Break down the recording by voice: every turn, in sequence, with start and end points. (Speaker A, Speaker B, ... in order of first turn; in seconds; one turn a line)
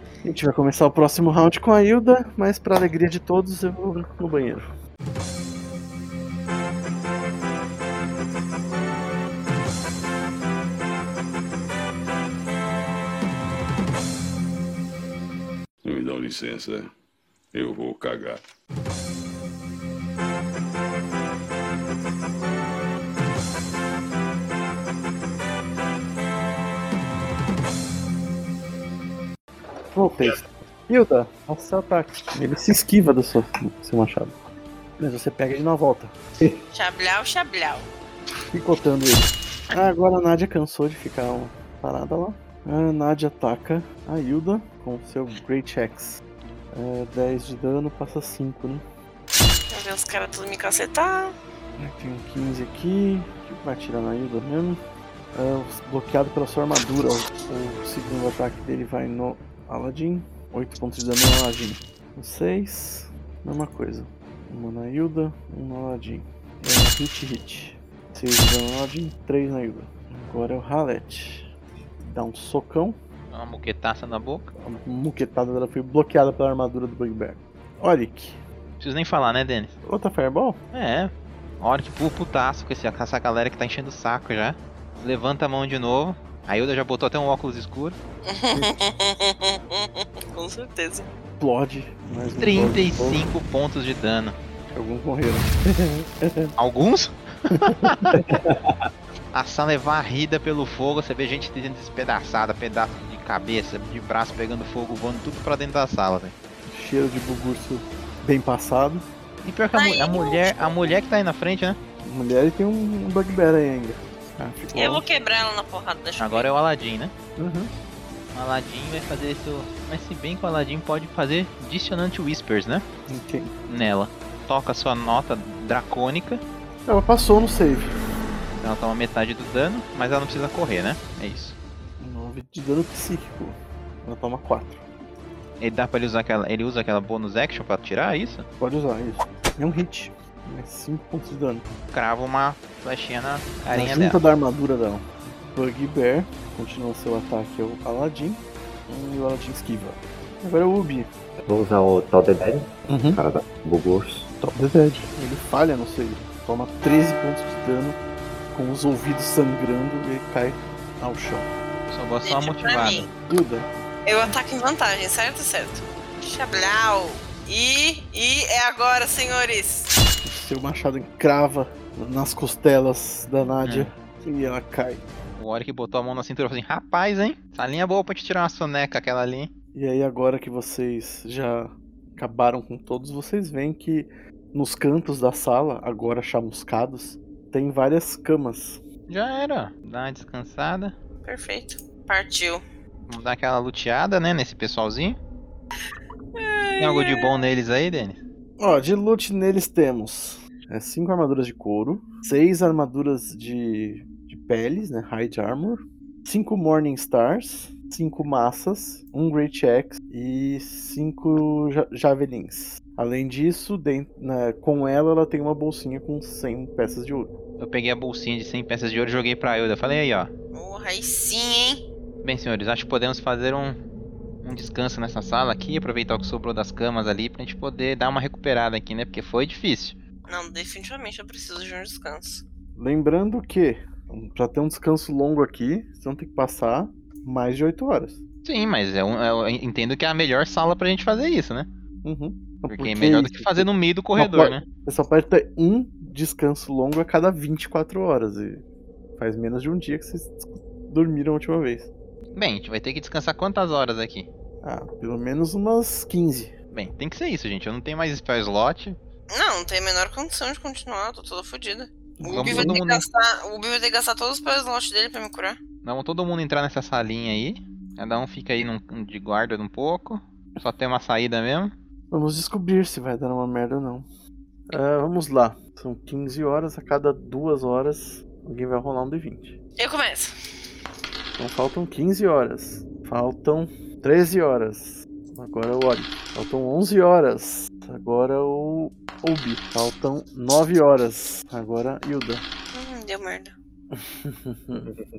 Speaker A: 0.2-4.7
Speaker B: 15.8-16.9
Speaker B: 17.5-18.4
Speaker A: 29.9-34.4
Speaker A: 35.0-36.1
Speaker C: 36.7-37.9
Speaker A: 38.5-46.2
Speaker A: 46.7-48.8
Speaker C: 49.7-51.3
Speaker A: 51.8-54.8
Speaker A: 55.3-71.5
Speaker A: 72.0-73.0
Speaker D: 73.3-74.5
Speaker A: 74.6-78.4
Speaker D: 78.8-79.7
Speaker A: 79.8-80.6
Speaker D: 80.7-88.0
Speaker C: 88.3-91.1
Speaker A: 91.4-93.2
Speaker D: 92.4-94.3
Speaker A: 94.7-96.5
Speaker D: 96.6-98.2
Speaker A: 97.6-98.0
Speaker E: 98.1-98.9
Speaker D: 99.3-106.3
Speaker A: 106.7-109.0
Speaker D: 109.4-111.8
Speaker C: 109.7-110.8
Speaker A: 112.0-115.0
Speaker C: 114.7-116.5
Speaker D: 116.2-117.1
Speaker A: 117.4-117.7
Speaker D: 118.3-122.8
Speaker A: 123.1-123.5
Speaker D: 123.7-126.4
Speaker A: 126.8-127.9
Speaker D: 128.6-131.6
Speaker A: 132.0-134.8
Speaker D: 135.6-138.4
Speaker A: 138.6-141.7
Speaker D: 141.9-144.2
Speaker A: 143.7-151.1
Speaker E: 151.4-154.3
Speaker A: 152.9-153.2
Speaker A: 154.4-158.0
Speaker A: 158.5-161.5
Speaker D: 161.9-163.1
Speaker C: 162.2-163.1
Speaker A: 163.2-163.7
Speaker C: 164.1-169.9
Speaker A: 170.2-175.1
Speaker D: 173.6-173.9
Speaker D: 175.4-179.5
Speaker A: 179.7-188.8
Speaker D: 189.1-190.9
Speaker C: 191.2-192.6
Speaker D: 193.1-195.2
Speaker C: 196.3-197.3
Speaker D: 196.8-198.2
Speaker A: 198.6-217.3
Speaker D: 217.6-220.3
Speaker C: 220.5-221.8
Speaker D: 222.2-223.8
Speaker D: 224.4-230.0
Speaker C: 230.3-232.4
Speaker A: 232.8-238.2
Speaker D: 238.4-241.7
Speaker A: 242.0-248.6
Speaker D: 242.7-244.6
Speaker A: 249.2-251.9
Speaker D: 252.3-254.3
Speaker A: 254.6-256.5
Speaker D: 256.7-259.0
Speaker C: 259.3-265.6
Speaker A: 262.2-262.8
Speaker D: 262.3-263.0
Speaker D: 265.8-271.7
Speaker A: 272.1-274.1
Speaker A: 274.7-279.6
Speaker C: 279.8-280.3
Speaker A: 281.4-292.4
Speaker C: 292.7-293.5
Speaker A: 293.9-294.9